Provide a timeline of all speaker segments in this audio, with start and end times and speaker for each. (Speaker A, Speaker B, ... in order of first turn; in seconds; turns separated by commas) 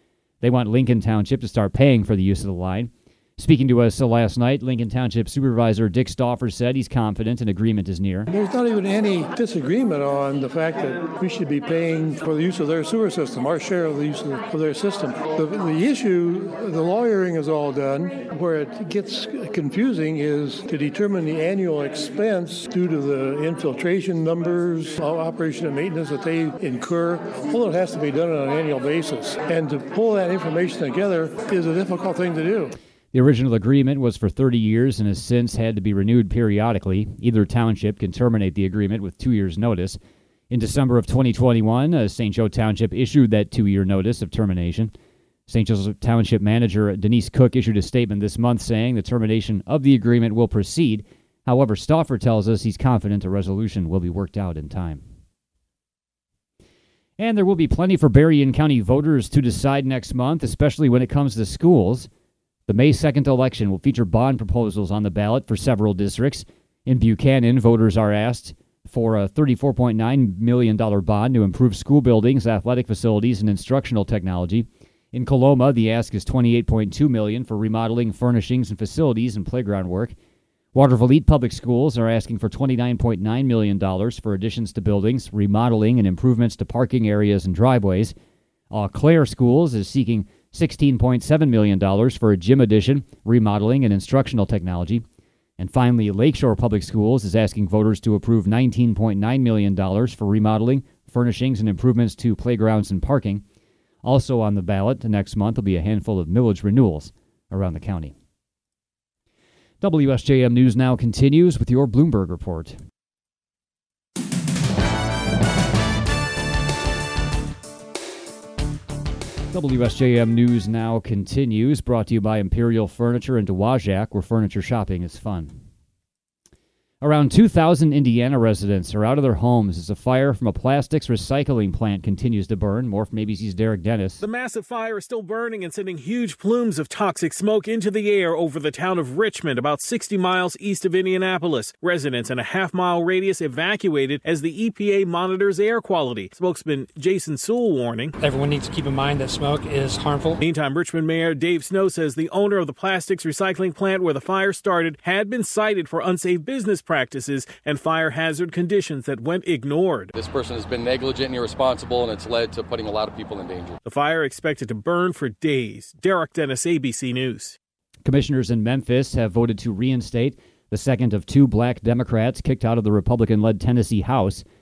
Speaker A: 0.4-8.3, Speaker B: 8.3-32.7, Speaker A: 33.1-40.0, Speaker A: 40.5-44.9, Speaker A: 45.5-55.0, Speaker A: 57.2-62.1, Speaker A: 62.7-80.2, Speaker A: 80.8-88.1, Speaker A: 88.7-95.0, Speaker A: 95.6-103.4, Speaker A: 104.0-108.1, Speaker A: 109.8-112.8, Speaker A: 119.5-125.5, Speaker A: 127.0-134.2, Speaker C: 134.2-148.2, Speaker D: 148.2-150.3, Speaker C: 150.4-160.1, Speaker E: 160.2-163.8, Speaker C: 163.8-167.6, Speaker A: 168.0-174.4